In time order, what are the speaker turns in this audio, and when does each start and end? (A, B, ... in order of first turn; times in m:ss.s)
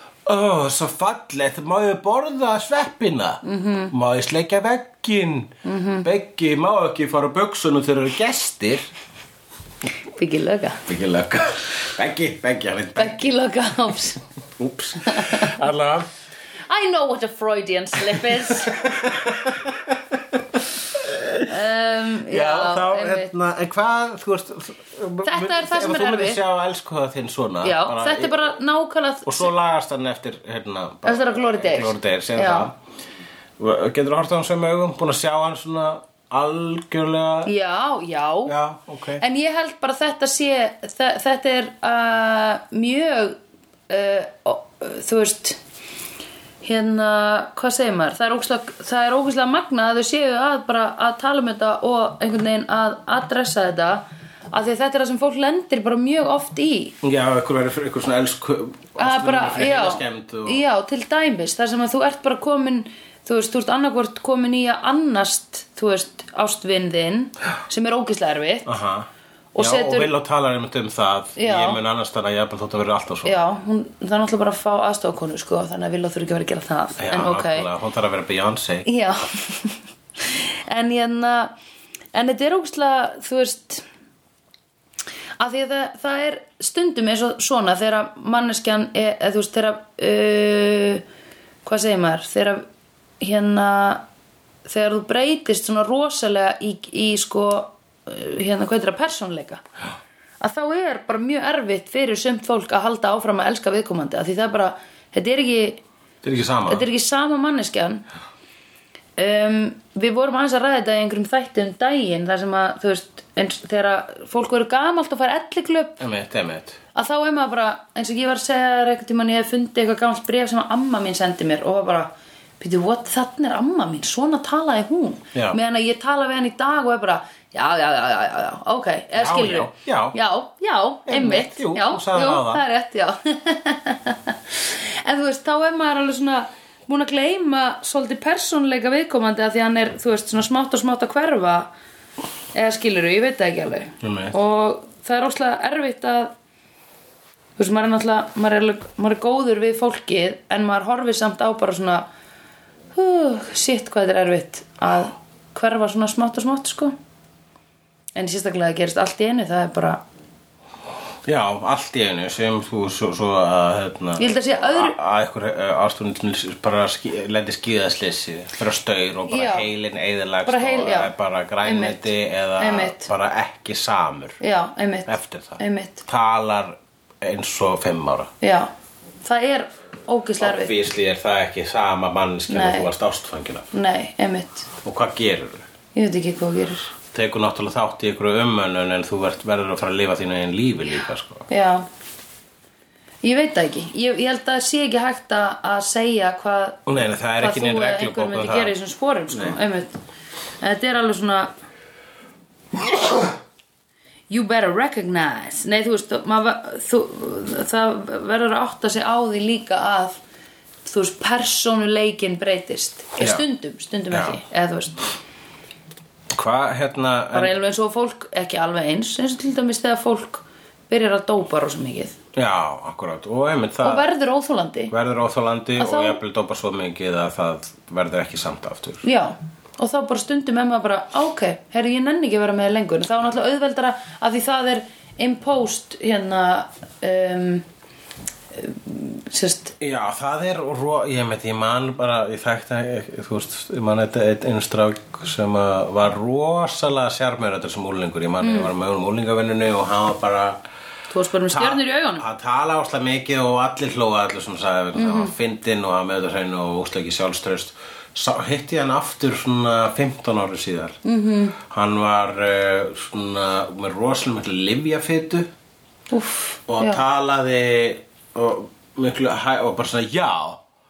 0:00.2-0:05.5 A
0:03.4-0:03.9 B
0:05.6-0:06.1 B
0:06.0-0:08.9 A
0:10.1-0:10.8 B
0:10.9-0:13.3 A
0:13.0-0:14.2 B
0:14.6-0:16.1 A
0:15.0-0:15.6 B
0:16.7-0:18.8 B
0:18.1-0:21.5 A
0:21.5-0:23.3 B
0:22.3-0:28.4 A
0:25.2-0:26.4 B
0:27.6-0:29.5 B
0:29.2-0:32.8 A
0:31.0-0:32.7 B
0:33.6-0:37.5 A
0:37.4-0:38.5 B
0:38.4-0:39.2 A
0:39.2-0:43.4 B
0:43.9-0:45.6 B
0:46.6-0:56.9 B
0:57.0-1:00.6 A
0:59.0-1:08.8 B
1:08.6-1:13.4 A
1:09.5-1:10.1 B
1:11.4-1:11.8 B
1:13.2-1:17.7 B
1:17.0-1:18.9 A
1:18.8-1:21.5 B
1:22.1-1:23.8 B
1:25.4-1:31.0 B
1:31.6-1:32.6 B
1:33.2-1:34.0 B
1:34.6-1:39.6 B
1:40.4-1:45.8 B
1:46.2-1:46.8 A
1:46.7-1:48.0 B
1:49.2-1:56.0 B
1:56.0-1:56.8 A
1:56.9-2:21.7 B
2:09.2-2:10.2 A
2:11.1-2:12.6 A
2:22.5-2:26.3 B
2:24.0-2:24.3 A
2:27.6-2:32.0 B
2:32.9-2:36.9 B
2:38.2-2:40.0 B
2:41.2-2:54.4 A
2:44.2-2:45.0 B
2:49.3-2:49.7 B
2:50.4-2:51.1 B
2:51.6-2:53.1 B
2:54.4-2:56.0 B
2:55.1-2:58.3 A
2:58.4-2:58.7 B
2:59.2-3:00.7 B
3:00.4-3:03.7 A
3:02.5-3:02.9 B
3:03.7-3:04.7 B
3:04.8-3:05.6 A
3:05.9-3:06.9 B
3:07.1-3:11.4 A
3:11.5-3:11.8 B
3:13.2-3:20.0 B
3:16.9-3:18.8 A
3:19.3-3:19.6 A
3:20.6-3:21.5 B
3:24.3-3:30.2 B
3:30.8-3:35.0 B
3:33.2-3:33.4 A
3:34.1-3:34.4 A
3:36.3-3:37.5 A
3:37.3-3:42.2 B
3:42.4-3:44.0 A
3:43.8-3:44.9 B
3:44.9-3:49.0 A
3:45.8-3:46.2 B
3:49.0-3:57.6 B
3:58.5-3:59.7 B
3:59.8-4:10.6 A
4:08.4-4:08.7 B
4:11.1-4:12.2 B
4:11.5-4:21.0 A
4:14.9-4:15.3 B
4:21.0-4:21.6 B
4:21.6-4:25.5 A
4:26.1-4:27.0 B
4:26.7-4:30.6 A